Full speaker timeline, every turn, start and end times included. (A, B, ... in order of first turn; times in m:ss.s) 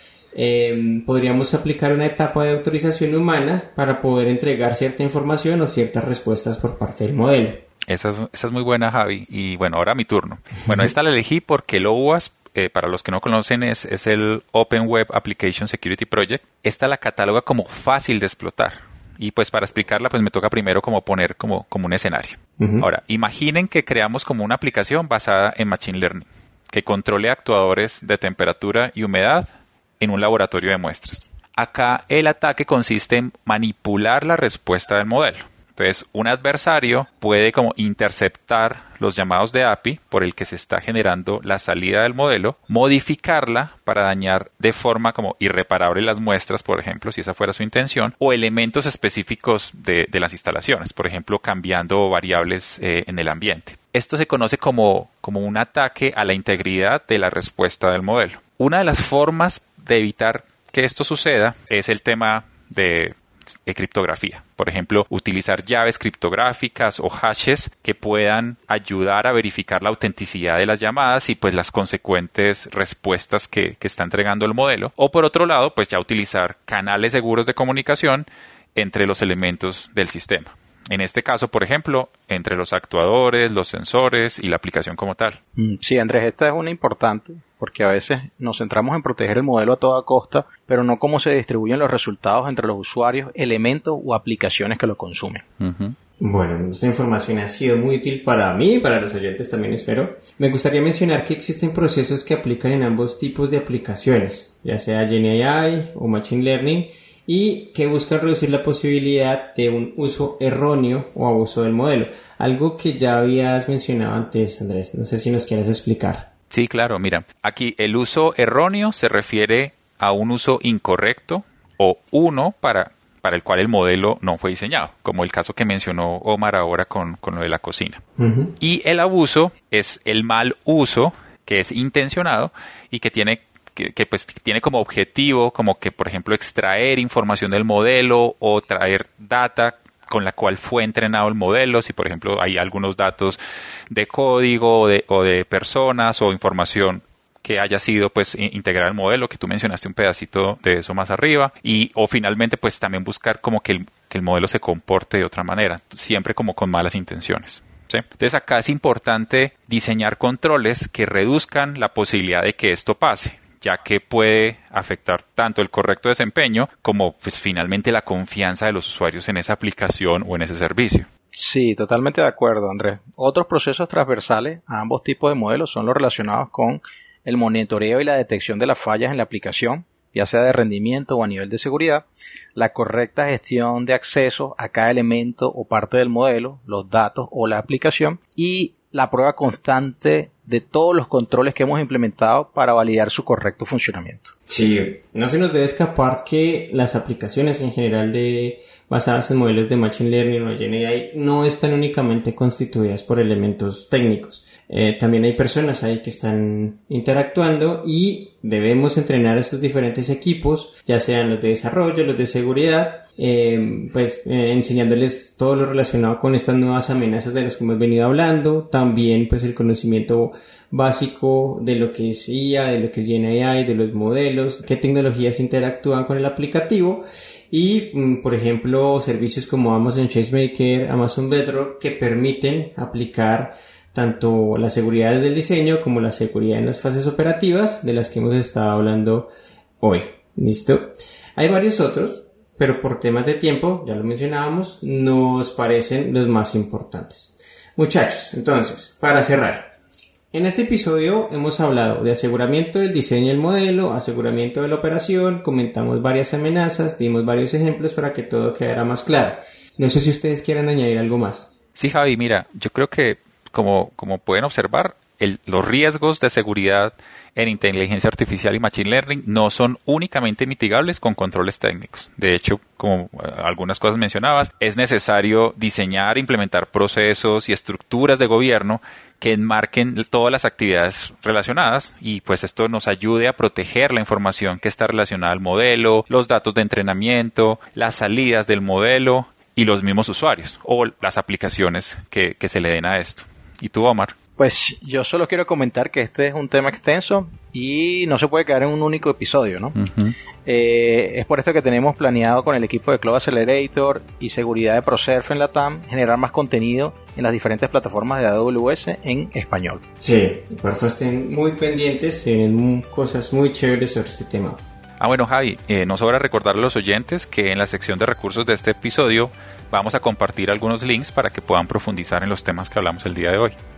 0:00.3-0:07.6 A
0:07.9-0:29.5 B
0:22.6-0:22.9 A
0:30.0-1:25.4 B
1:25.6-1:35.4 C
1:35.6-1:36.0 B
1:36.2-1:56.3 A
1:56.5-2:08.0 B
2:08.2-2:08.5 A
2:08.6-2:23.4 B
2:23.9-2:51.1 B
2:51.3-3:02.0 C
3:02.6-3:14.3 C
3:14.5-3:59.3 A
3:59.8-4:09.7 A
4:10.3-4:21.5 A
4:21.8-4:54.1 B
4:54.4-4:59.8 C
4:59.8-5:00.1 B
5:00.4-5:09.8 C
5:10.0-5:14.6 A
5:15.0-5:23.6 B